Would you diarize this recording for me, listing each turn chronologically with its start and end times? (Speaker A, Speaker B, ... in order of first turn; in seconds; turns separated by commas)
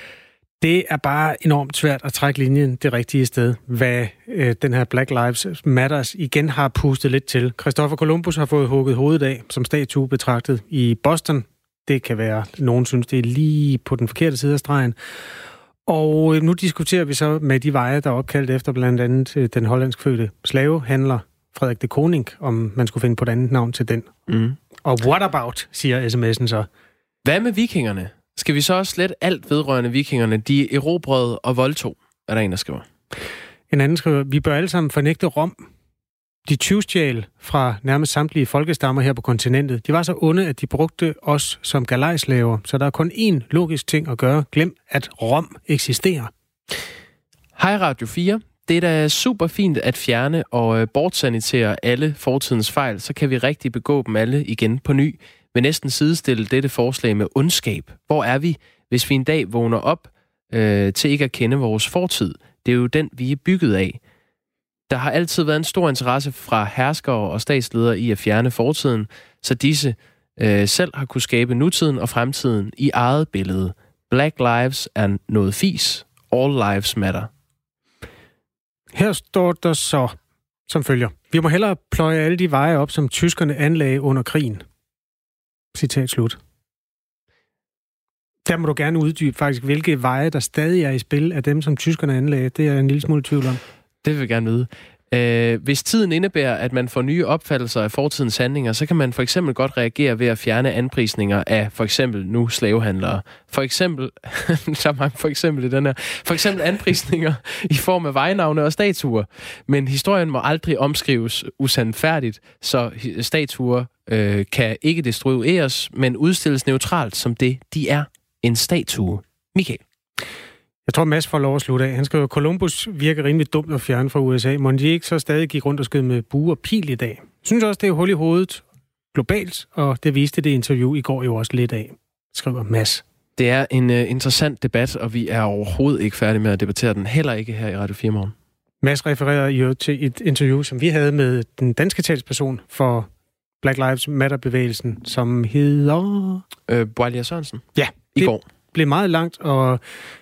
Speaker A: 0.6-15.0, Speaker A: 15.9-24.1, Speaker B: 24.3-24.6, Speaker A: 24.8-26.7, Speaker B: 27.2-32.9, Speaker A: 33.7-35.6, Speaker A: 36.5-46.3, Speaker B: 47.5-64.0, Speaker B: 64.9-77.3, Speaker A: 78.9-80.2, Speaker A: 80.7-84.6, Speaker A: 85.7-86.4, Speaker A: 88.5-93.6, Speaker B: 94.0-119.8, Speaker A: 120.9-128.6, Speaker A: 129.1-133.0, Speaker B: 133.4-138.3, Speaker A: 138.8-143.1, Speaker A: 143.6-146.4, Speaker B: 146.7-148.4, Speaker A: 147.8-149.8